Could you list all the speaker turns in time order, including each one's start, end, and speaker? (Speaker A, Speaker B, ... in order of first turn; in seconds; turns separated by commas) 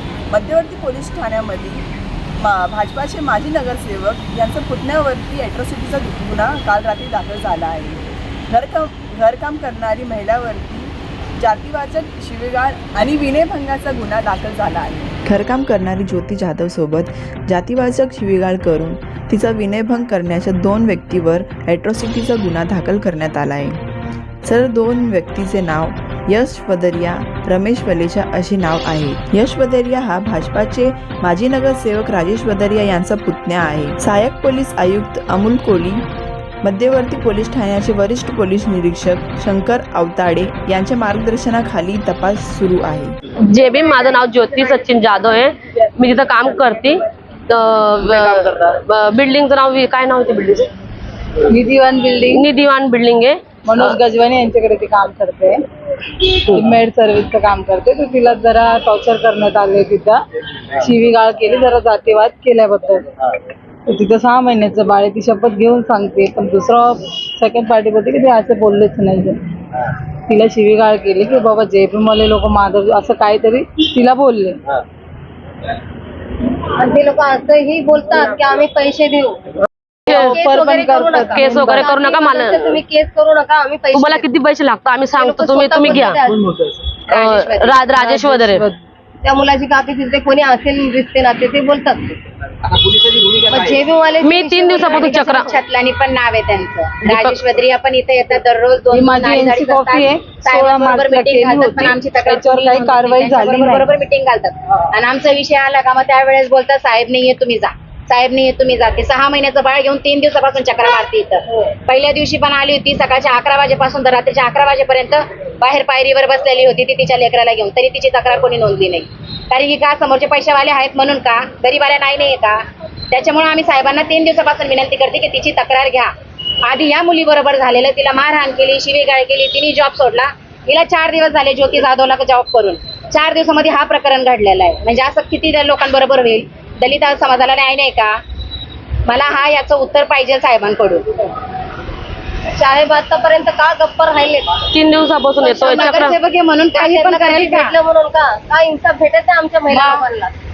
Speaker A: 0.3-1.9, Speaker A: 2.4-23.8, Speaker A: 24.4-36.0, Speaker A: 36.6-43.1, Speaker B: 43.5-50.7, Speaker C: 51.4-52.5, Speaker B: 52.3-53.4, Speaker C: 53.6-55.6, Speaker C: 56.4-63.0, Speaker C: 63.9-74.6, Speaker D: 76.8-79.4, Speaker C: 80.0-81.9, Speaker B: 80.1-80.4, Speaker D: 80.2-84.2, Speaker B: 81.3-82.8, Speaker B: 83.9-86.2, Speaker D: 85.2-86.3, Speaker E: 87.1-87.8, Speaker B: 87.1-88.6, Speaker C: 88.0-88.8, Speaker D: 89.2-92.1, Speaker D: 93.3-95.3, Speaker B: 94.2-95.5, Speaker E: 94.8-122.6, Speaker C: 98.9-103.9, Speaker E: 123.1-126.1, Speaker E: 126.6-138.2, Speaker E: 139.1-141.1, Speaker D: 142.6-144.6, Speaker B: 144.7-146.2, Speaker D: 145.4-145.9, Speaker E: 145.5-147.8, Speaker D: 146.8-150.3, Speaker E: 149.7-150.0